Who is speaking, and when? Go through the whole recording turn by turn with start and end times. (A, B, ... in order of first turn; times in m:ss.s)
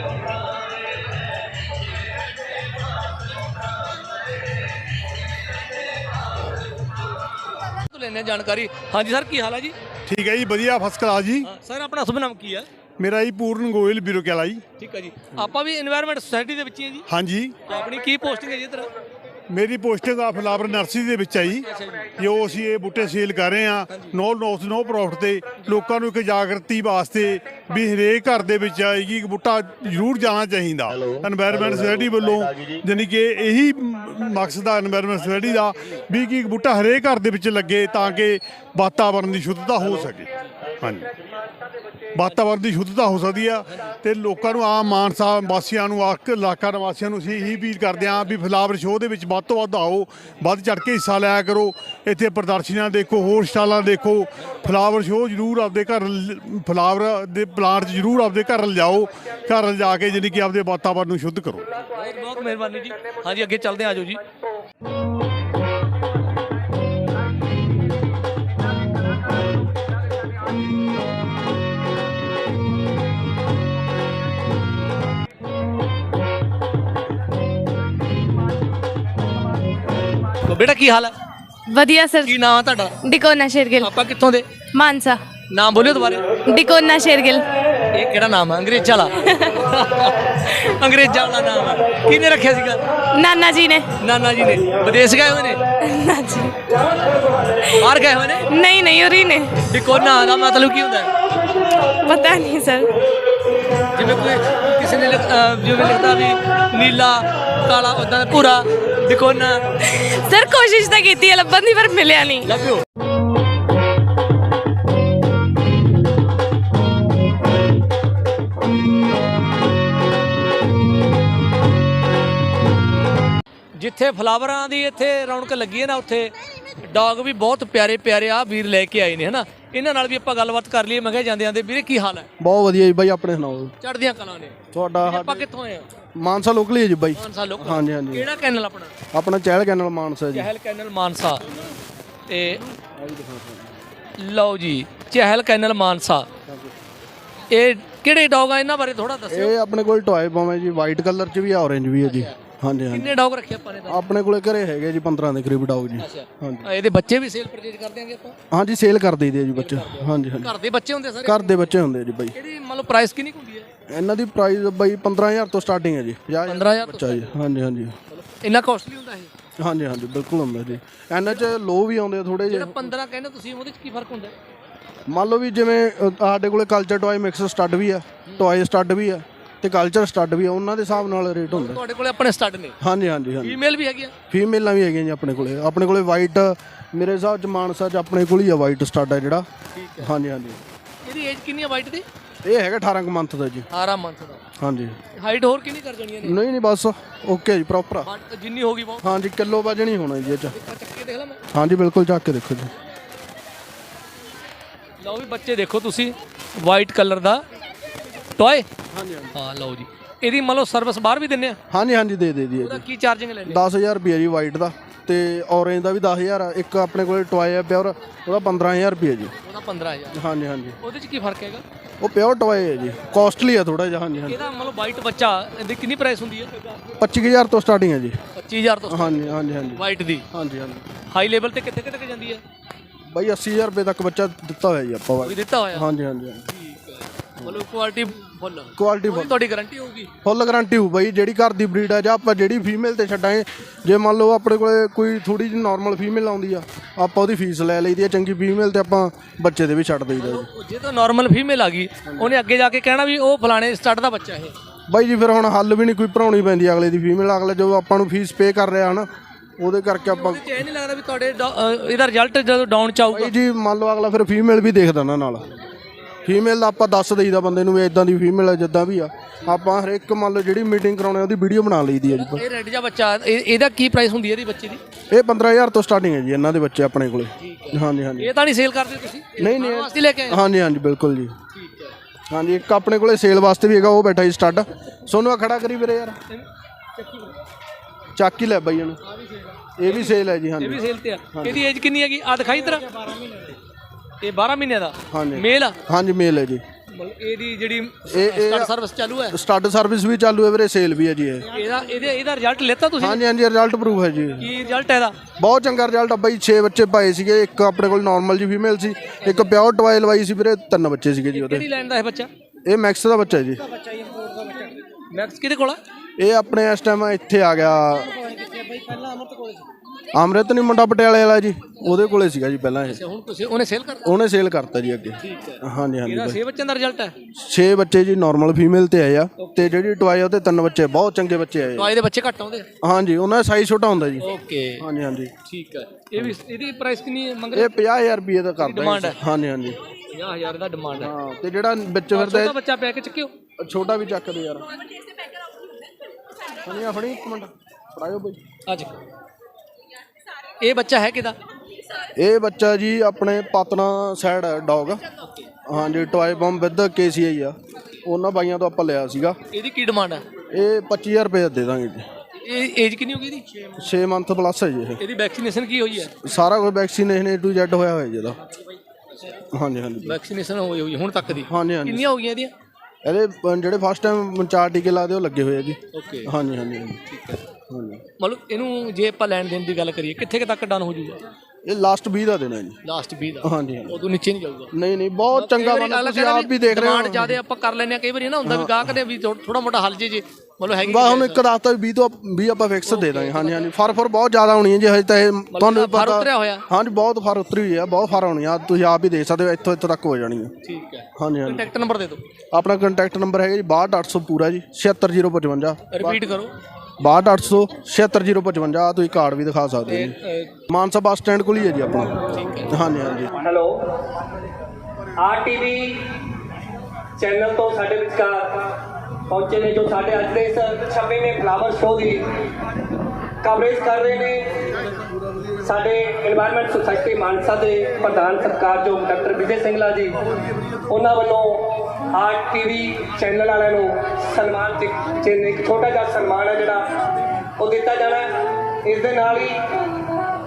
0:07.8-0:09.7 A
0:10.1-0:11.5 B
0:11.4-0:12.7 A
0:13.0-0:14.6 B
0:14.8-0:17.0 A
0:17.1-0:17.5 B
0:17.7-0:18.9 A
0:19.5-0:21.6 B
0:21.6-0:22.1 A
0:22.2-0:40.3 B
0:23.9-0:24.2 A
0:40.8-0:41.1 B
0:42.1-1:01.6 B
1:01.8-1:04.2 A
1:20.4-1:21.1 A
1:21.7-1:22.3 C
1:22.2-1:23.0 A
1:23.0-1:23.9 C
1:23.8-1:24.5 A
1:24.7-1:25.2 C
1:25.5-1:26.2 A
1:26.5-1:27.5 C
1:27.9-1:32.8 A
1:29.2-1:29.6 C
1:33.1-1:33.9 C
1:34.0-1:35.6 A
1:35.8-1:36.7 C
1:37.6-1:38.4 A
1:38.5-1:39.6 C
1:39.6-1:41.1 A
1:42.0-1:42.9 C
1:43.9-1:49.6 A
1:49.8-1:52.5 C
1:52.4-1:52.8 A
2:03.7-2:12.3 A
2:12.4-2:13.7 D
2:13.8-2:15.9 A
2:14.7-2:15.4 D
2:16.2-2:18.3 D
2:17.1-2:18.9 A
2:19.1-2:20.5 D
2:20.3-2:21.4 A
2:22.3-2:22.7 A
2:23.0-2:23.7 D
2:24.2-2:26.3 A
2:26.5-2:26.7 D
2:27.5-2:29.5 A
2:29.3-2:33.1 D
2:32.0-2:32.4 A
2:32.9-2:34.0 A
2:33.9-2:36.7 D
2:36.0-2:38.4 A
2:38.5-2:40.5 D
2:39.5-2:41.7 A
2:41.2-2:42.3 D
2:42.3-2:43.7 A
2:43.9-2:47.9 D
2:46.4-2:47.4 A
2:48.1-2:49.3 A
2:49.6-2:52.9 D
2:52.5-2:54.3 A
2:55.1-3:01.8 D
3:01.5-3:02.8 A
3:02.8-3:03.6 D
3:03.4-3:04.1 A
3:04.3-3:09.5 D
3:09.7-3:10.1 A
3:10.0-3:10.6 D
3:11.0-3:12.0 A
3:12.4-3:13.7 D
3:13.7-3:14.4 A
3:14.6-3:15.0 D
3:15.1-3:16.4 A
3:16.2-3:18.1 D
3:18.0-3:19.2 A
3:19.0-3:20.5 D
3:20.5-3:21.4 A
3:21.5-3:22.7 D
3:25.0-3:27.4 A
3:28.4-3:28.7 A
3:28.9-3:29.4 D
3:29.3-3:31.6 A
3:31.7-3:32.8 D
3:32.6-3:33.6 A
3:33.4-3:39.3 D
3:39.4-3:40.2 A
3:40.1-3:40.8 D
3:40.8-3:41.6 A
3:42.0-3:44.4 D
3:44.3-3:46.8 A
3:47.0-3:48.2 D
3:48.3-3:50.2 A
3:48.9-3:50.8 D
3:51.1-3:52.4 A
3:53.1-3:56.4 D
3:55.2-3:55.9 A
3:56.5-4:00.1 A
3:57.4-3:57.6 D
3:58.8-3:59.4 D
4:00.2-4:10.5 D
4:10.2-4:14.5 A
4:12.0-4:12.3 D
4:14.9-4:19.1 D
4:19.6-4:20.4 D
4:20.1-4:23.3 A
4:23.1-4:25.5 D
4:26.2-4:32.4 D
4:32.1-4:34.8 A
4:35.1-4:38.3 D
4:37.4-4:40.4 A
4:39.4-4:41.3 D
4:41.5-4:41.9 A
4:42.3-4:46.2 D
4:47.0-4:47.3 A
4:48.1-4:49.0 D
4:49.3-4:53.5 A
4:49.8-4:51.6 D
4:54.2-4:55.8 A
4:55.1-4:56.6 D
4:56.9-4:59.4 A
4:58.0-4:58.7 D
4:59.3-5:01.5 D
5:01.5-5:03.2 A
5:03.0-5:04.5 D
5:04.4-5:05.2 A
5:05.4-5:11.6 D
5:11.3-5:12.3 A
5:12.6-5:13.6 D
5:14.1-5:15.8 A
5:16.2-5:18.3 D
5:18.5-5:19.5 A
5:20.1-5:23.0 D
5:22.9-5:24.1 A
5:24.0-5:26.4 D
5:25.2-5:27.1 A
5:27.4-5:31.9 D
5:29.4-5:29.7 A
5:31.6-5:32.7 A
5:32.8-5:35.3 D
5:34.2-5:34.8 A
5:35.4-5:37.7 A
5:37.5-5:39.8 D
5:38.6-5:39.2 A
5:40.1-5:41.1 A
5:41.0-5:42.6 D
5:42.1-5:43.3 A
5:43.6-5:44.7 D
5:46.6-5:48.4 D
5:48.7-5:48.9 A
5:50.6-5:51.4 A
5:52.2-5:55.0 D
5:55.6-5:59.4 D
5:59.5-6:00.2 A
6:00.5-6:02.1 D
6:02.4-6:03.4 A
6:03.8-6:05.0 D
6:05.0-6:06.1 A
6:06.2-6:08.4 D
6:09.5-6:10.2 D
6:10.0-6:12.5 A
6:11.4-6:12.0 D
6:13.0-6:17.0 D
6:15.9-6:16.3 A
6:17.1-6:17.4 A
6:17.7-6:18.0 D
6:18.2-6:21.2 A
6:21.6-6:22.8 D
6:22.8-6:24.7 A
6:23.4-6:24.0 D
6:24.7-6:27.4 D
6:25.3-6:31.4 A
6:28.4-6:28.9 D
6:30.8-6:40.5 D
6:32.8-6:33.7 A
6:35.5-6:36.6 A
6:40.6-6:42.2 A
6:41.2-6:41.7 D
6:42.5-6:46.2 D
6:45.9-6:46.5 A
6:47.0-6:50.2 D
6:49.9-6:50.5 A
6:50.7-6:53.3 D
6:52.3-6:52.8 A
6:53.3-6:53.8 E
6:55.2-6:56.2 E
6:57.2-7:02.3 E
7:03.4-7:04.7 E
7:04.9-7:05.5 D
7:05.6-7:10.2 E
7:10.8-7:17.0 E
7:17.6-7:18.3 E
7:18.8-7:19.8 E